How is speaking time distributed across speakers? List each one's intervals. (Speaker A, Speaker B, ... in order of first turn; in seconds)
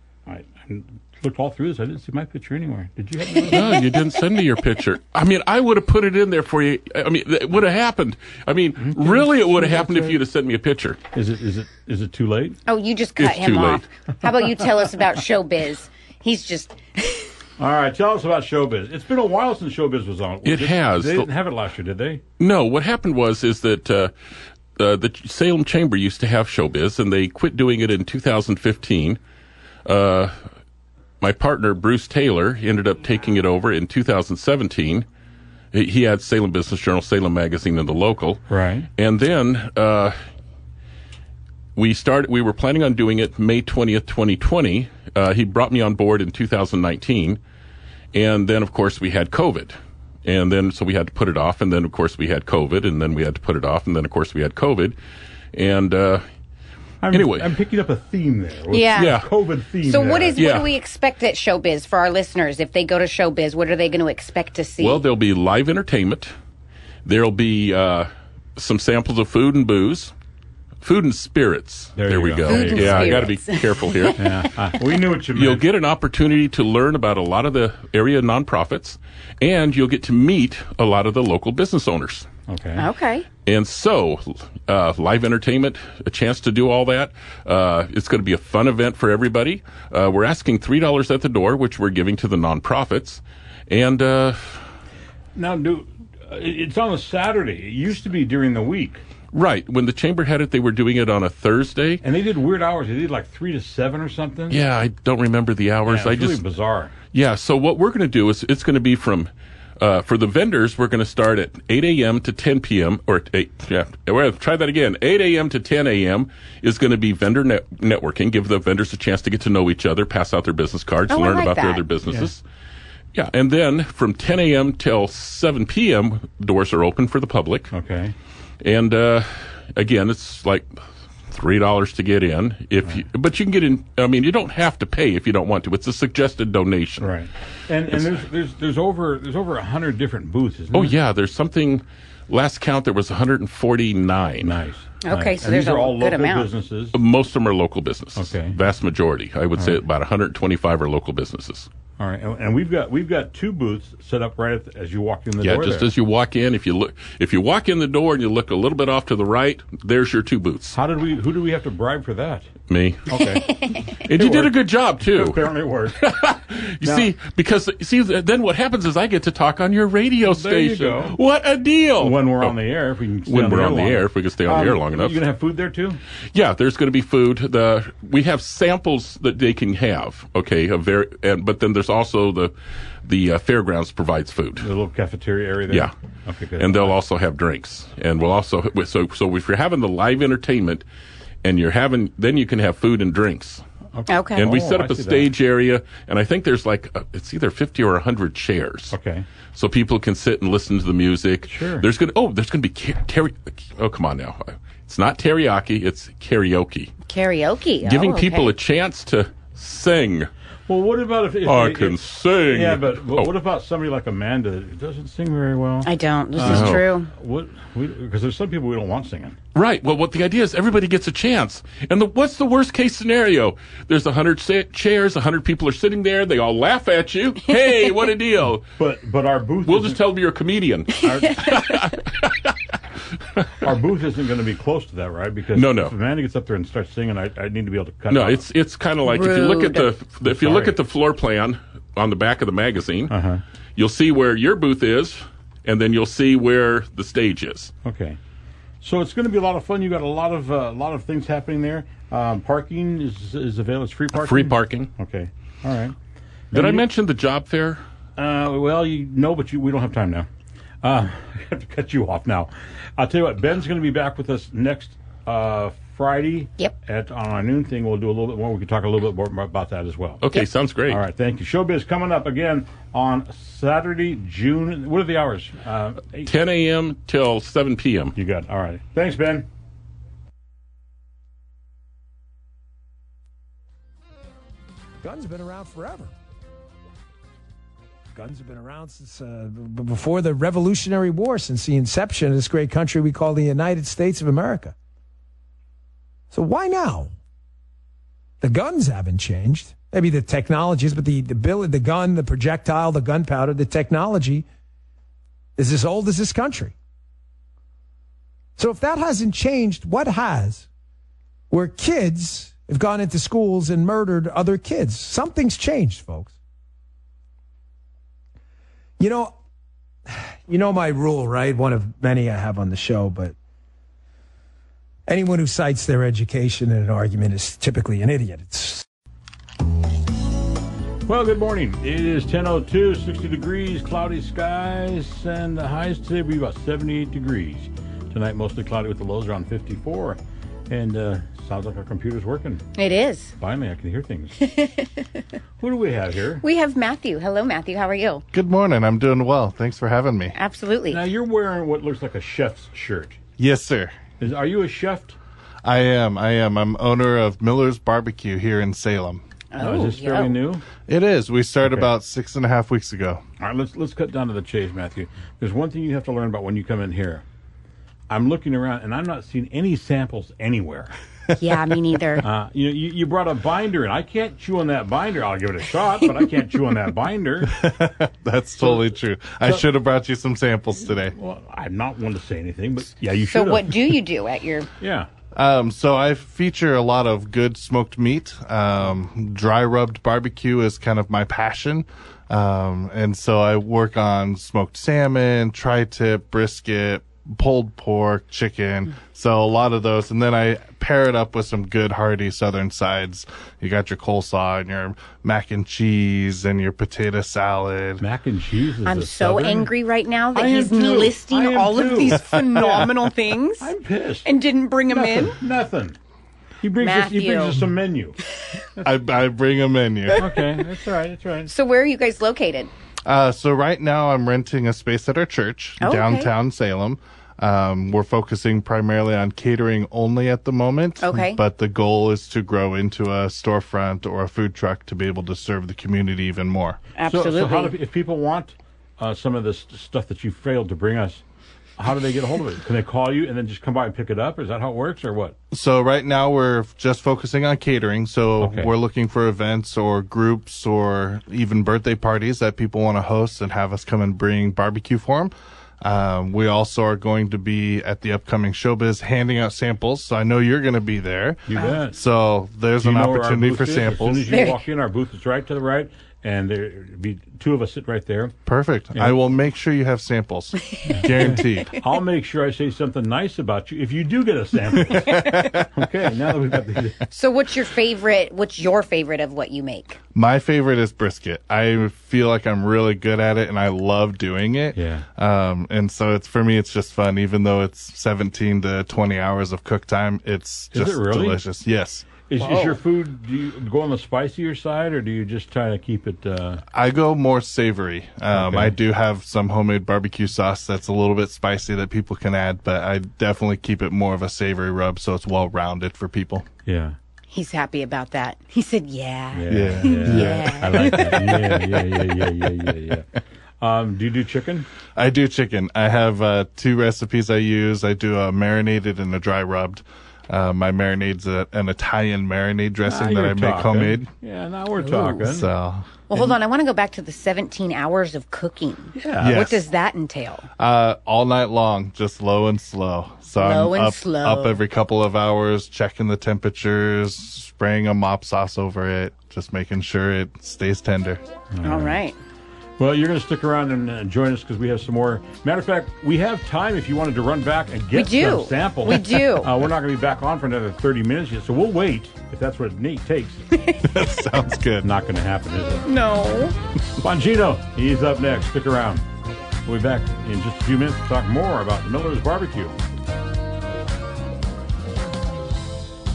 Speaker A: 0.3-4.0, 8.8-10.2, 11.1-12.6, 17.6-22.2, 38.5-38.9, 57.0-60.5, 72.0-73.3, 74.2-75.7, 82.5-82.9, 95.3-99.0, 102.0-104.6, 105.9-107.0, 127.7-128.2, 137.0-141.0, 144.4-147.0, 148.2-148.6, 149.6-149.8, 152.0-155.9, 160.7-162.5, 163.1-163.5, 164.1-166.1, 166.8-167.1, 170.2-171.2, 172.0-176.0, 184.6-187.0, 193.9-195.3, 198.9-199.3, 201.5-201.9, 210.7-219.4, 228.8-230.1, 231.0-231.5, 233.6-238.5, 240.2-240.8, 243.1-243.4, 247.8-248.2, 248.8-255.9, 256.5-256.9, 258.2-260.3, 260.8-270.2, 270.9-276.3, 278.2-279.5, 331.1-342.6, 343.4-344.4, 345.6-346.4, 350.9-353.2, 354.2-355.2, 359.6-360.6, 361.6-361.9, 363.4-367.2, 368.1-371.0, 372.2-377.6, 378.6-378.9, 379.4-379.7, 381.1-384.0, 384.8-385.1, 408.0-409.7, 410.4-412.9, 413.6-414.3, 414.9-416.0, 416.6-418.2, 420.2-421.5, 437.1-441.2, 441.8-445.4, 448.4-448.7, 461.5-462.0, 462.8-468.4, 468.9-469.4, 470.9-477.0, 484.7-485.1, 490.7-491.4, 492.3-496.6, 498.3-498.8, 506.6-507.0, 509.3-513.1, 513.6-514.7, 522.9-525.5, 529.0-529.4, 541.5-542.0, 542.8-553.5, 554.8-555.9, 557.0-559.1, 559.7-562.8
Speaker B: 3.5-11.0, 13.2-13.8, 20.4-21.3, 22.4-24.1, 24.8-29.2, 29.9-30.3, 31.2-35.1, 35.7-38.4, 39.0-40.1, 41.8-47.4, 48.1-55.0, 55.5-56.2, 57.1-57.5, 59.0-59.3, 60.4-60.7, 64.8-66.3, 67.0-70.1, 70.8-74.2, 75.3-82.3, 83.5-94.7, 99.3-102.0, 104.5-106.4, 107.1-122.4, 123.2-127.7, 128.6-130.7, 131.3-137.1, 140.7-144.6, 146.9-151.7, 155.4-160.8, 162.7-165.4, 166.0-172.6, 173.3-175.2, 176.3-182.5, 183.1-184.7, 186.6-190.8, 191.4-193.6, 194.3-199.0, 199.5-206.9, 207.8-210.3, 211.4-213.3, 216.4-216.9, 219.6-228.7, 229.7-232.6, 233.3-233.7, 235.5-235.9, 238.1-243.1, 243.8-247.7, 254.1-254.9, 256.5-257.8, 270.2-271.0, 276.2-278.1
Speaker C: 12.7-17.3, 58.7-59.2, 59.8-65.0, 72.5-74.3, 82.8-83.3, 121.1-121.9, 145.0-146.5, 163.6-163.9, 194.1-194.5, 207.1-208.5, 215.8-217.1, 239.1-239.9, 342.8-343.3, 344.4-345.2, 346.4-348.2, 350.4-351.0, 359.5-360.4, 371.3-372.2, 383.3-384.7, 408.8-413.7, 414.2-415.4, 416.8-417.6, 421.5-422.7, 425.8-426.3, 431.0-431.4, 437.0-437.8, 464.3-464.6, 475.2-475.6, 477.1-480.0, 492.4-492.8, 507.3-511.6, 526.1-530.5, 533.4-534.6, 541.6-542.2, 547.9-549.5, 555.9-556.6
Speaker D: 285.0-286.1, 288.1-294.8, 296.3-297.1, 298.4-304.4, 305.6-306.7, 308.6-310.7, 311.5-316.3, 319.0-319.3, 320.5-323.4, 325.1-328.8
Speaker E: 348.3-350.4, 353.4-353.9, 355.6-359.2, 360.9-363.2, 377.5-381.1, 385.4-408.0, 418.8-420.4, 423.1-436.8, 445.5-464.4, 468.5-471.8, 480.1-492.1, 496.7-506.5, 509.5-511.5, 515.0-524.1, 524.8-525.9, 529.2-529.6, 530.6-541.2, 553.8-554.9